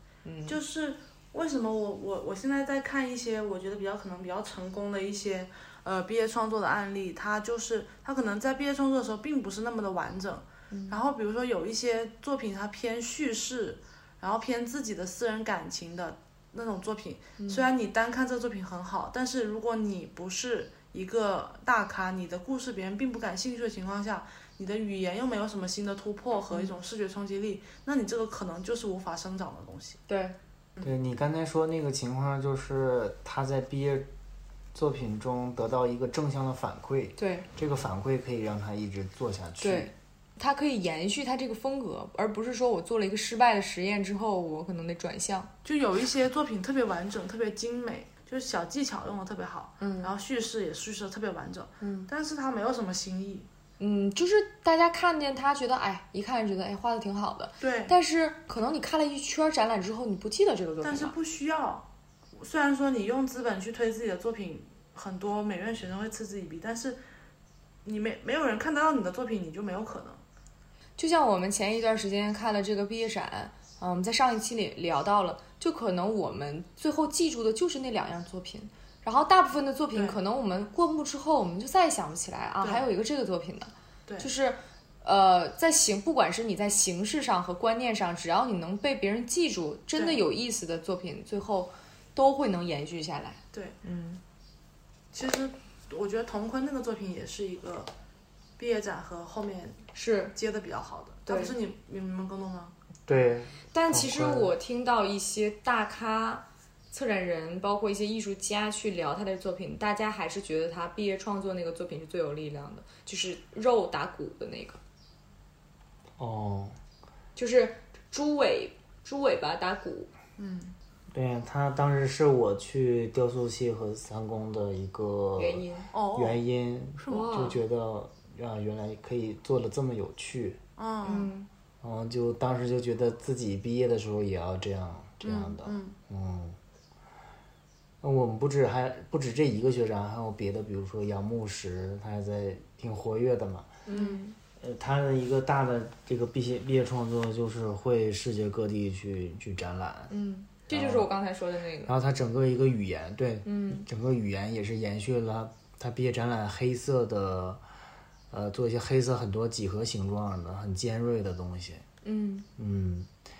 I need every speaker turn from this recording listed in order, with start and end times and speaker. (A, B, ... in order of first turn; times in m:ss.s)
0:00.2-0:00.6 A
0:00.4-0:30.0 B
0:10.7-0:11.0 A
0:17.4-0:17.7 A
0:30.1-0:30.4 A
0:30.8-0:34.1 C
0:34.7-0:39.9 C
0:37.2-0:37.5 A
0:39.6-0:45.5 A
0:45.6-0:53.5 B
0:49.8-0:50.1 A
0:51.8-0:52.1 A
0:53.8-1:01.1 A
0:57.6-0:57.9 B
1:00.8-1:07.0 B
1:07.8-1:10.2 B
1:11.0-1:34.2 A
1:22.6-1:22.8 B
1:29.9-1:30.2 B
1:33.5-1:33.8 B
1:35.1-1:37.9 B
1:38.6-1:42.7 B
1:39.9-1:40.3 A
1:41.3-1:41.6 A
1:43.1-1:44.5 C
1:43.7-1:54.8 A
1:56.2-1:56.8 C
1:57.4-2:00.1 A
2:00.4-2:00.7 B
2:01.1-2:10.6 C
2:05.4-2:05.9 A
2:05.9-2:06.4 B
2:07.0-2:07.4 B
2:07.1-2:07.6 A
2:10.8-2:11.3 B
2:11.0-2:11.5 A
2:11.8-2:16.6 C
2:15.2-2:16.0 B
2:18.0-2:23.8 C
2:23.8-2:24.4 A
2:23.9-2:24.2 B
2:24.6-2:30.1 C
2:30.1-2:31.9 A
2:30.7-2:31.1 C
2:31.8-2:37.6 C
2:33.4-2:33.8 A
2:38.3-2:41.8 C
2:42.0-2:42.5 A
2:42.6-2:43.1 C